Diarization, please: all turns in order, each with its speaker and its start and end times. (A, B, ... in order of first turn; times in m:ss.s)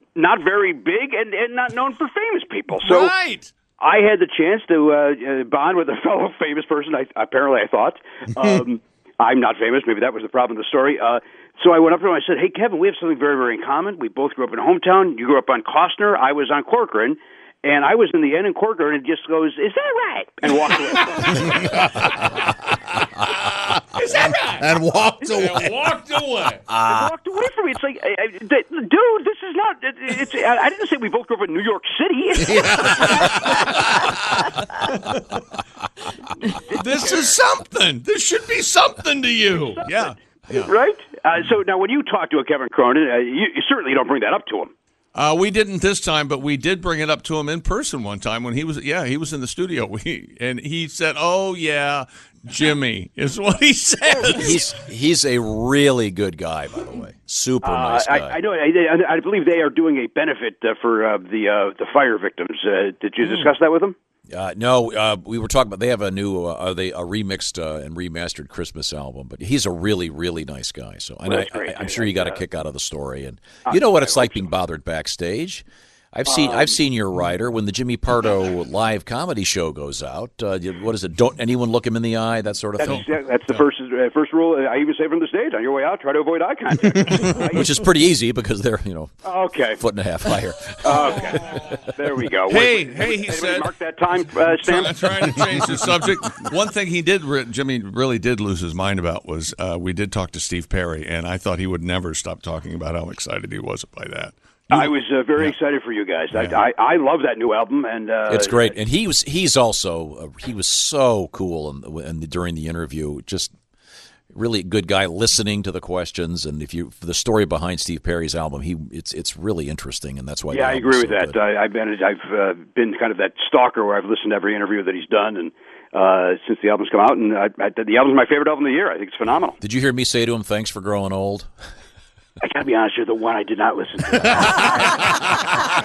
0:00.2-0:03.1 A
0:02.8-0:03.5 B
0:03.8-0:21.6 A
0:21.3-0:22.2 B
0:21.5-0:22.1 C
0:23.2-0:24.7 B
0:24.2-0:25.8 C
0:25.2-0:26.7 B
0:26.7-0:33.5 A
0:32.4-0:33.4 C
0:33.2-0:33.6 B
0:36.5-0:37.4 A
0:36.5-0:40.7 B
0:39.5-0:44.7 A
0:45.2-0:54.6 B
0:54.1-0:54.6 A
0:54.3-0:58.4 D
0:57.6-1:04.0 A
1:04.3-1:23.0 D
1:11.2-1:12.4 A
1:13.7-1:14.5 A
1:16.3-1:16.8 A
1:22.8-1:27.7 A
1:22.8-1:23.6 B
1:27.2-1:29.1 D
1:29.2-1:29.8 A
1:29.7-1:32.1 D
1:30.8-1:35.0 A
1:32.5-1:33.7 B
1:34.6-1:45.6 B
1:44.7-1:48.8 A
1:46.3-1:46.6 B
1:48.3-1:53.5 D
1:54.3-2:01.4 D
2:00.5-2:09.6 A
2:09.6-2:11.5 D
2:12.4-2:15.0 A